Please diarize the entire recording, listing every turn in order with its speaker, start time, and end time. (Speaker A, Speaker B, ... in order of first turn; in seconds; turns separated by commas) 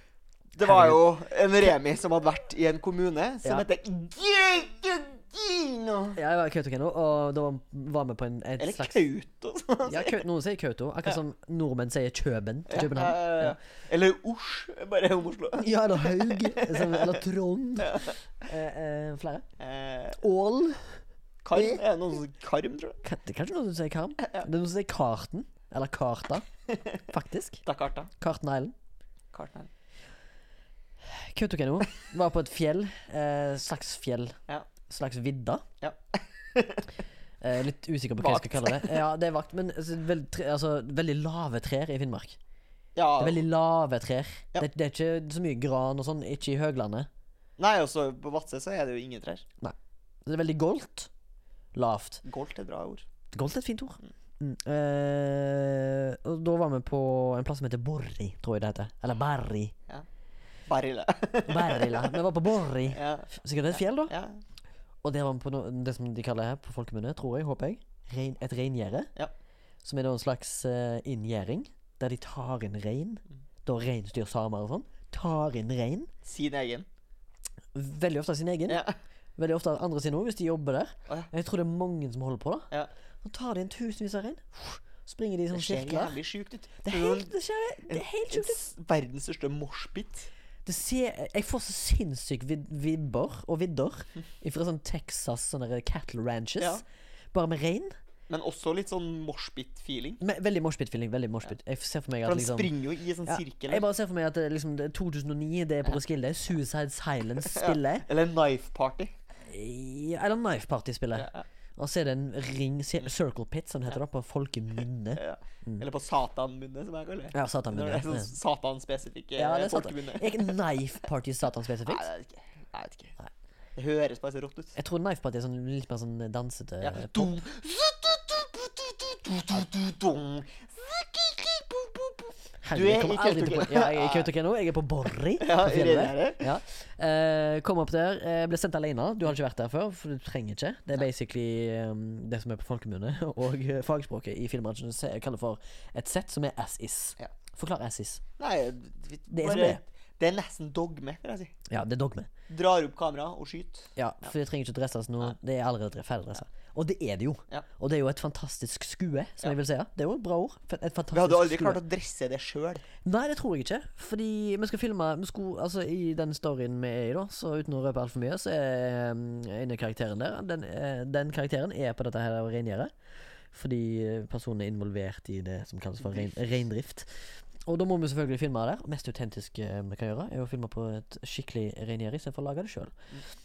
Speaker A: 0.5-6.2, Speaker B: 0.6-1.0, Speaker B: 6.2-9.0, Speaker A: 8.6-10.2, Speaker B: 9.8-13.6, Speaker A: 12.7-17.2, Speaker B: 15.6-19.4, Speaker A: 17.8-18.1, Speaker A: 19.6-20.2, Speaker B: 20.2-21.0, Speaker A: 21.4-23.0, Speaker B: 21.5-21.8, Speaker B: 23.0-26.5, Speaker B: 27.1-27.6, Speaker A: 27.6-28.1, Speaker B: 28.2-28.7, Speaker A: 29.3-29.7, Speaker B: 31.1-34.4, Speaker B: 34.9-35.6, Speaker A: 35.8-36.9, Speaker B: 37.4-42.4, Speaker A: 38.2-39.0, Speaker A: 42.9-43.4, Speaker B: 43.2-47.1, Speaker A: 47.6-49.5, Speaker B: 50.2-51.1, Speaker B: 51.7-52.2, Speaker A: 52.2-53.0, Speaker B: 53.3-59.7, Speaker A: 60.6-62.2, Speaker B: 61.5-64.1, Speaker A: 62.9-64.4, Speaker B: 65.0-69.1, Speaker B: 69.8-76.1, Speaker A: 76.2-76.9, Speaker B: 77.7-78.8, Speaker A: 78.7-78.9, Speaker B: 79.4-82.7, Speaker B: 83.2-86.2, Speaker A: 85.5-87.3, Speaker B: 86.8-88.6, Speaker A: 87.9-90.3, Speaker B: 90.6-97.9, Speaker A: 98.3-100.2, Speaker B: 100.2-102.7, Speaker A: 102.2-103.8, Speaker B: 103.2-108.1, Speaker A: 107.4-109.1, Speaker B: 109.5-115.8, Speaker A: 111.1-111.4, Speaker A: 115.2-120.6, Speaker B: 117.3-118.3, Speaker B: 119.3-122.1, Speaker A: 121.8-123.1, Speaker A: 123.8-124.8, Speaker B: 124.8-127.4, Speaker A: 126.8-134.3, Speaker B: 132.6-148.2, Speaker A: 135.4-136.5, Speaker A: 148.4-151.5, Speaker B: 149.3-149.8, Speaker B: 151.7-152.3, Speaker A: 152.5-154.3, Speaker B: 153.9-161.8, Speaker A: 161.1-162.8, Speaker B: 163.0-172.9, Speaker B: 173.5-183.0, Speaker A: 176.0-176.3